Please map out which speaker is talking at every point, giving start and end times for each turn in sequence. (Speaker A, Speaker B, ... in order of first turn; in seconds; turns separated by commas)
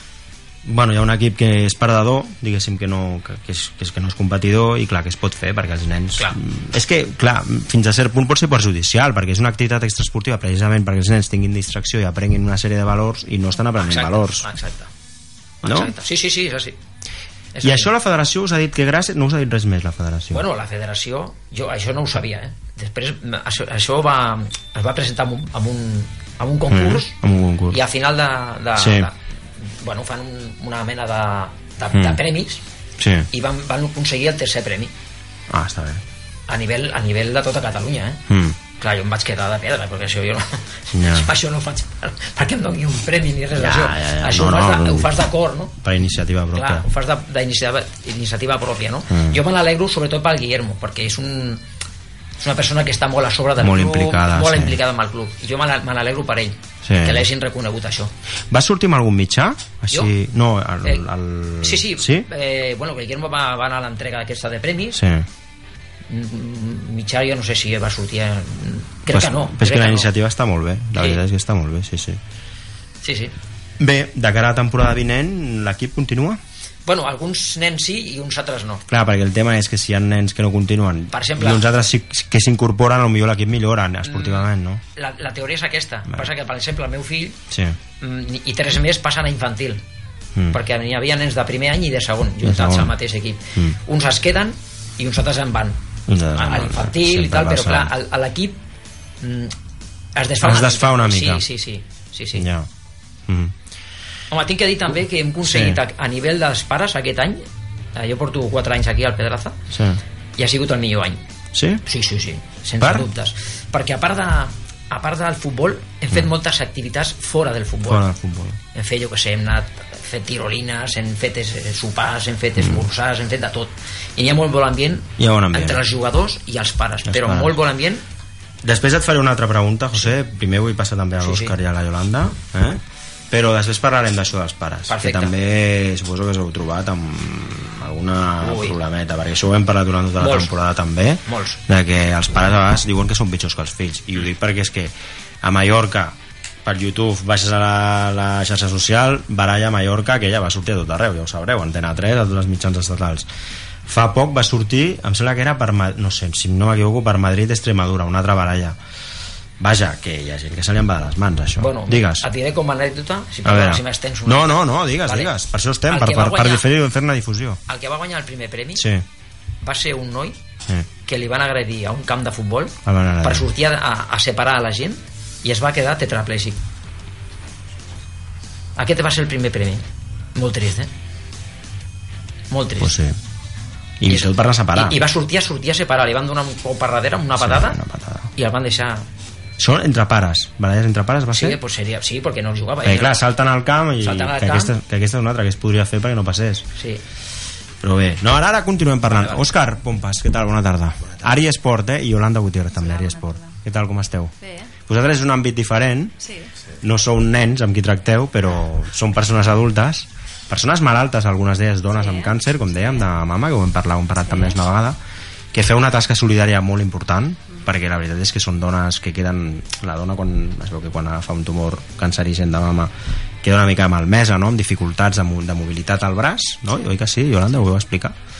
Speaker A: 0.6-14.5, Speaker B: 13.8-14.9, Speaker B: 15.6-16.8, Speaker A: 15.6-15.9, Speaker B: 17.5-17.9, Speaker A: 17.6-20.4, Speaker B: 20.3-27.1, Speaker A: 26.7-27.8, Speaker B: 27.7-32.6, Speaker A: 28.8-29.1, Speaker A: 31.9-32.2, Speaker A: 33.0-33.3, Speaker B: 33.3-34.9, Speaker A: 35.5-36.0, Speaker B: 36.5-38.2, Speaker A: 38.3-38.6, Speaker B: 38.8-45.7, Speaker A: 40.9-41.3, Speaker A: 43.5-45.1, Speaker A: 45.8-46.9, Speaker B: 46.5-51.6, Speaker A: 49.1-49.4, Speaker B: 52.4-58.1, Speaker A: 53.6-54.8, Speaker A: 56.8-57.3, Speaker A: 58.5-62.3, Speaker B: 61.6-65.0, Speaker A: 64.9-65.2, Speaker B: 66.1-70.1, Speaker A: 69.1-72.2, Speaker B: 73.0-73.3, Speaker A: 73.8-76.4, Speaker B: 76.8-78.8, Speaker A: 78.9-84.8, Speaker B: 81.1-81.7, Speaker B: 84.0-87.4, Speaker A: 87.5-87.8, Speaker B: 88.0-89.8, Speaker B: 90.5-95.8, Speaker A: 92.4-92.9, Speaker A: 96.1-97.9, Speaker B: 96.3-98.6, Speaker B: 99.2-99.5, Speaker B: 100.2-102.5, Speaker A: 100.4-101.4, Speaker A: 102.3-102.7, Speaker A: 103.3-103.5, Speaker B: 104.3-107.4, Speaker A: 105.4-105.8, Speaker B: 107.9-109.5, Speaker A: 109.7-110.0, Speaker B: 110.4-111.2, Speaker A: 111.5-111.8, Speaker B: 111.8-118.0, Speaker A: 112.8-113.1, Speaker A: 117.9-118.6, Speaker B: 118.7-128.0, Speaker A: 125.2-125.8, Speaker A: 127.0-127.5, Speaker A: 128.6-153.3, Speaker B: 131.2-131.5, Speaker B: 134.9-135.3, Speaker B: 138.4-138.8, Speaker B: 140.2-140.5, Speaker B: 141.2-141.6, Speaker A: 153.8-158.8, Speaker A: 159.6-162.3, Speaker B: 161.6-165.3, Speaker A: 163.4-167.6, Speaker B: 165.9-166.7, Speaker B: 167.7-168.8, Speaker A: 168.8-169.0, Speaker B: 169.6-170.4, Speaker B: 171.1-176.6, Speaker A: 172.8-173.5, Speaker B: 178.8-179.8, Speaker B: 180.3-180.9, Speaker B: 182.5-182.9, Speaker A: 182.8-183.2, Speaker A: 184.0-185.0, Speaker B: 184.1-187.8, Speaker A: 187.4-188.3, Speaker B: 188.3-189.1, Speaker A: 189.6-191.6, Speaker B: 191.3-193.2, Speaker A: 192.8-196.7, Speaker B: 194.0-194.7, Speaker A: 197.8-204.3, Speaker B: 199.1-199.4, Speaker C: 202.7-203.5, Speaker C: 204.4-204.7, Speaker A: 204.9-206.1, Speaker C: 206.2-206.5, Speaker A: 206.8-215.0, Speaker C: 211.9-212.3, Speaker C: 214.3-214.5, Speaker A: 215.5-228.1